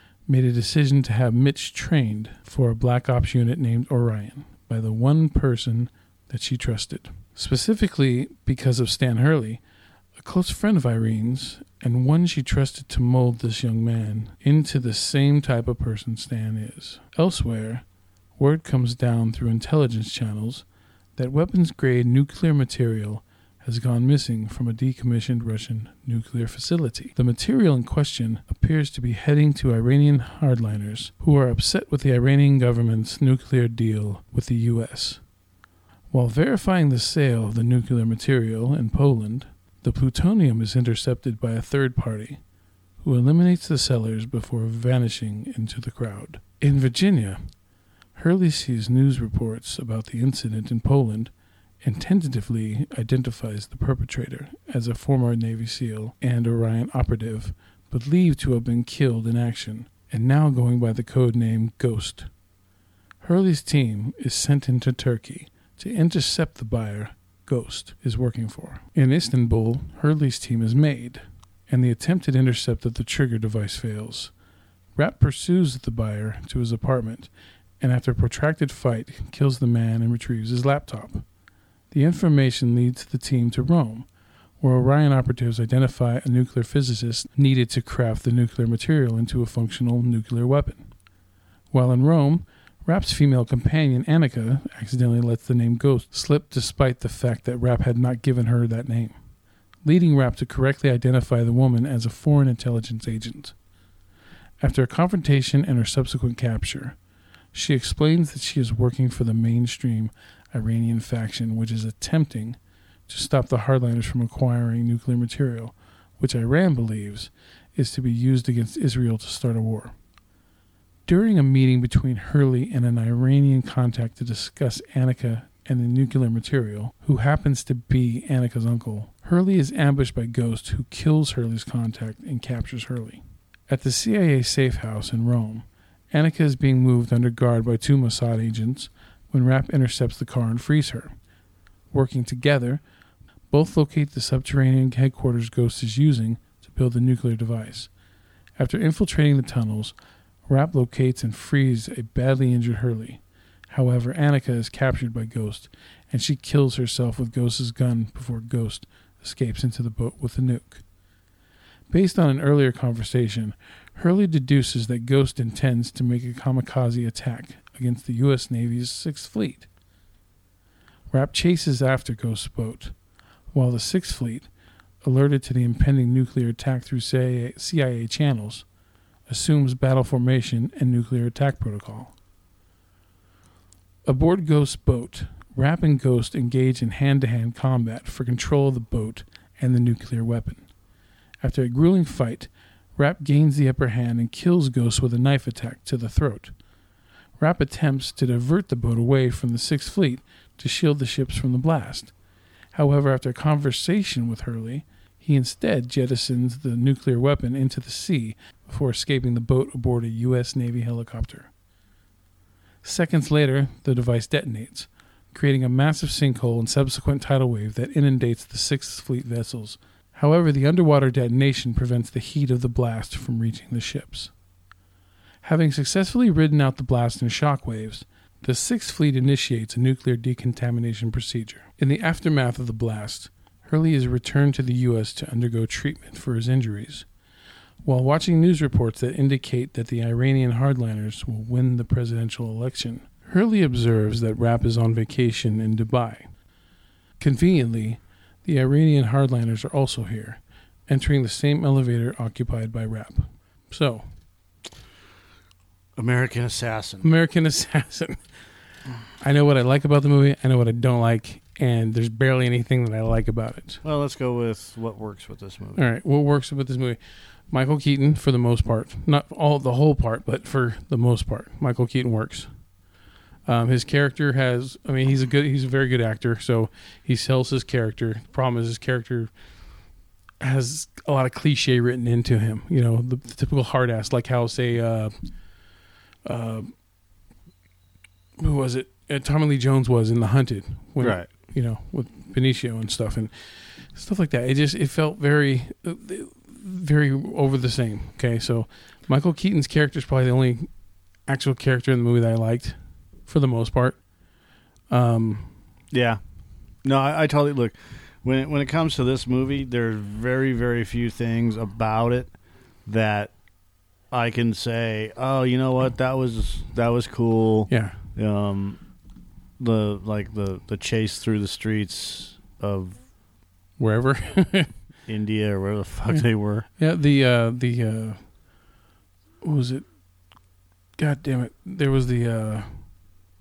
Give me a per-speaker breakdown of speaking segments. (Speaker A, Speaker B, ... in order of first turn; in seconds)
Speaker A: 0.3-9.6, 10.2-17.8, 18.4-20.6, 21.2-35.2, 36.1-42.4, 43.0-47.4, 48.1-51.3, 51.8-62.3, 63.2-74.3, 75.0-77.3, 77.8-81.2, 81.9-84.1, 84.6-90.9, 91.7-99.2, 99.8-103.5, 104.6-107.0, 107.5-119.9, 121.1-141.1, 141.9-142.8, 143.5-147.9, 148.6-149.9, 150.5-160.8, 161.9-169.7, 171.1-172.9, 173.5-174.5, 175.0-178.7, 179.3-182.1, 184.1-190.7, 191.4-196.5, 197.4-202.1, 202.7-211.5, 212.8-224.3, 225.4-237.1, 237.8-246.3, 247.2-254.1, 257.0-258.2, 259.2-263.8, 265.8-267.0, 267.5-272.5, 273.5-279.3, 280.4-285.1, 286.2-286.7, 288.4-293.3, 293.8-300.7, 301.3-304.0, 304.9-305.5, 317.7-318.0, 323.8-324.7, 326.8-328.2, 329.4-329.8, 331.0-332.8
Speaker B: 256.0-257.1, 263.8-265.9, 291.0-291.3, 305.9-306.2, 306.8-312.3, 312.9-313.3, 314.1-318.8, 319.6-323.0, 325.1-326.6